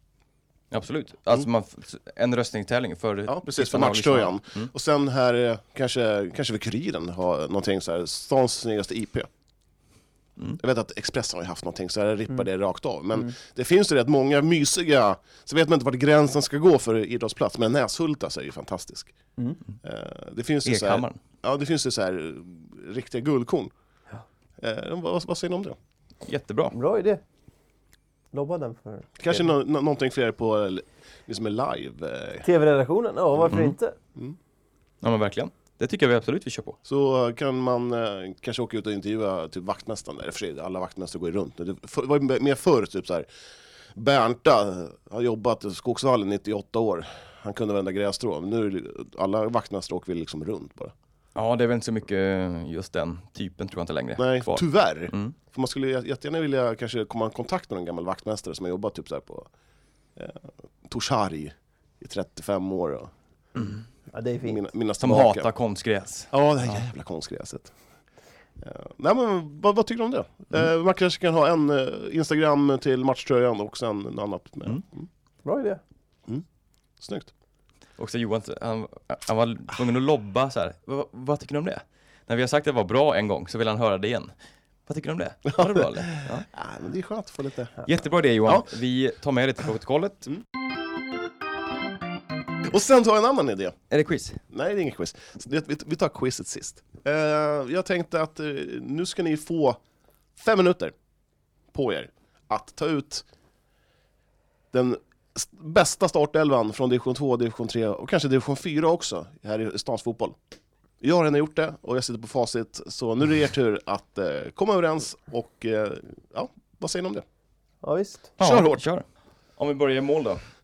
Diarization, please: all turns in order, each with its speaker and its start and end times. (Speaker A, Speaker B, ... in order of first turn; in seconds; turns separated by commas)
Speaker A: 0.7-4.7, Speaker B: 3.3-9.3, Speaker B: 10.6-19.1, Speaker B: 19.8-23.7, Speaker A: 20.6-21.2, Speaker B: 24.6-25.8, Speaker A: 26.2-26.8, Speaker C: 26.7-27.2, Speaker C: 28.3-29.5, Speaker B: 29.2-32.5, Speaker C: 32.4-34.0, Speaker A: 33.5-33.7, Speaker A: 35.0-36.8, Speaker B: 36.8-43.2, Speaker B: 44.0-50.9, Speaker A: 51.3-55.3, Speaker B: 54.2-59.5, Speaker B: 60.1-63.1, Speaker A: 63.6-63.8, Speaker C: 64.1-64.6, Speaker B: 64.4-65.5, Speaker A: 65.0-66.8, Speaker B: 66.3-67.7, Speaker B: 68.6-75.0, Speaker C: 75.4-75.8, Speaker B: 77.0-77.3, Speaker A: 78.0-84.3, Speaker A: 84.9-86.5, Speaker B: 85.5-85.8, Speaker B: 86.5-87.8, Speaker A: 87.8-90.3, Speaker B: 92.7-93.8, Speaker A: 93.9-94.4, Speaker B: 94.5-99.8, Speaker B: 100.4-100.9, Speaker B: 101.7-103.2, Speaker B: 104.7-110.3, Speaker B: 111.0-117.2, Speaker C: 117.8-118.3, Speaker A: 118.4-119.0, Speaker B: 118.4-118.8, Speaker A: 119.6-120.4